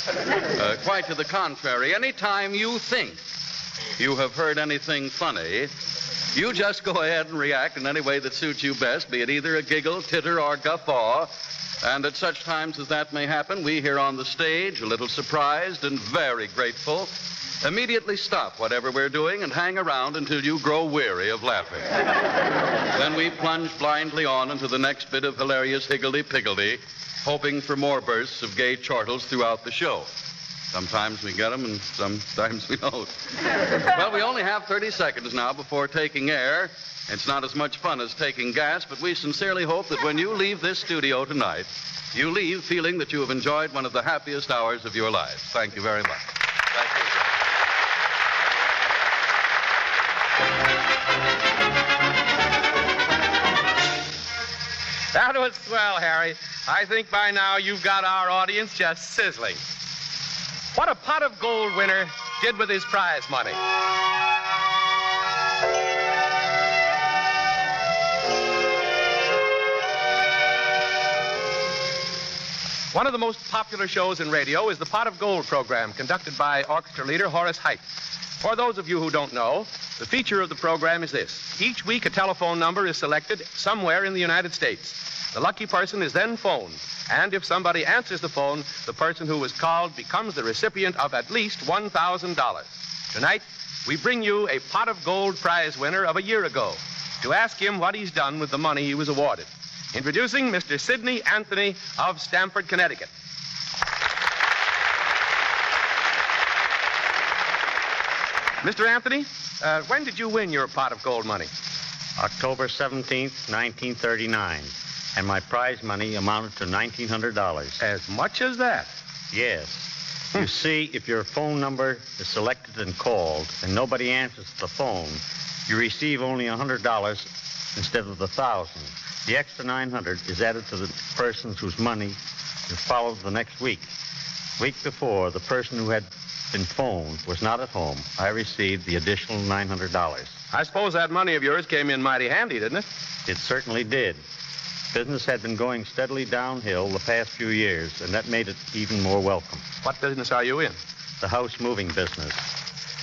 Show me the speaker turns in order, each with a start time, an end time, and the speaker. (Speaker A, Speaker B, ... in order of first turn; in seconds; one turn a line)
Speaker A: 0.5-3.2
Speaker A: 4.0-5.7
Speaker A: 6.3-21.9
Speaker A: 22.9-30.1
Speaker A: 30.7-33.1
Speaker A: 33.8-46.3
Speaker B: 55.1-59.6
Speaker B: 60.7-63.6
Speaker B: 72.9-77.8
Speaker B: 78.4-103.1
Speaker B: 108.6-111.5
Speaker C: 112.2-117.8
Speaker B: 117.8-118.9
Speaker C: 119.3-133.9
Speaker C: 134.6-140.4
Speaker B: 140.5-142.9
Speaker C: 143.2-144.2
Speaker C: 144.9-149.6
Speaker B: 149.8-150.8
Speaker C: 151.2-152.4